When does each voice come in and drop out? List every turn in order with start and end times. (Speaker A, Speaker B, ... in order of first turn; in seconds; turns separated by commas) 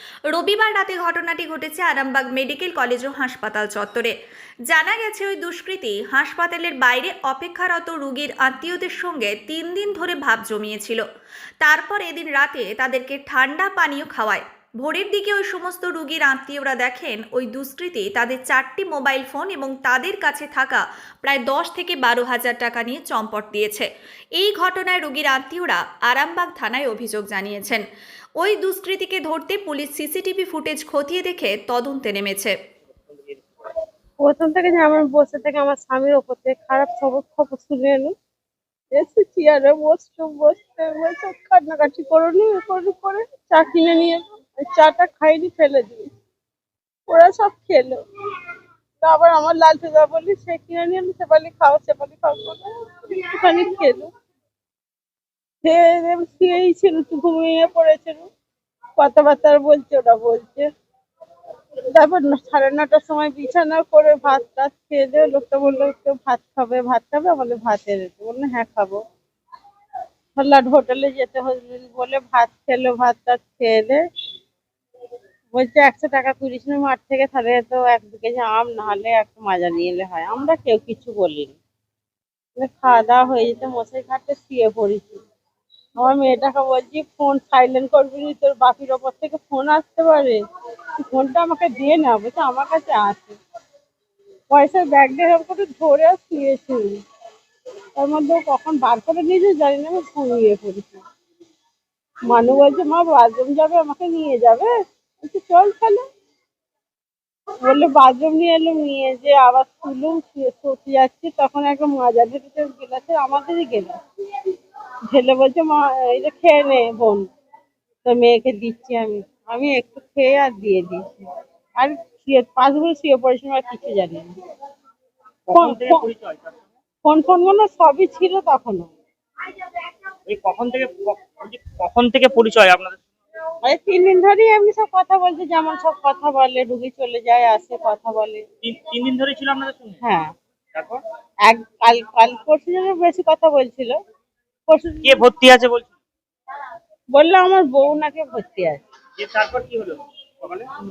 Speaker A: 0.3-4.1, Speaker A: 4.7-11.0, Speaker A: 11.6-27.9, Speaker A: 28.4-32.6, Speaker B: 34.2-38.1, Speaker B: 38.9-46.1, Speaker B: 47.1-48.0, Speaker B: 49.0-54.1, Speaker B: 55.6-58.3, Speaker B: 59.0-60.7, Speaker B: 62.0-69.0, Speaker B: 70.4-74.0, Speaker B: 75.5-81.6, Speaker B: 82.6-85.2, Speaker B: 86.0-90.4, Speaker B: 91.0-93.4, Speaker B: 94.5-96.9, Speaker B: 98.0-101.0, Speaker B: 102.3-104.7, Speaker B: 105.2-106.0, Speaker B: 107.7-114.0, Speaker B: 115.1-117.3, Speaker B: 118.0-121.0, Speaker B: 121.8-124.3, Speaker B: 125.5-126.1, Speaker C: 125.5-126.4, Speaker B: 127.0-128.9, Speaker C: 130.3-133.0, Speaker B: 133.7-138.4, Speaker C: 138.7-139.9, Speaker B: 140.0-140.3, Speaker B: 141.5-143.9, Speaker B: 144.7-145.3, Speaker C: 145.1-145.9, Speaker B: 147.1-148.8, Speaker C: 149.2-149.9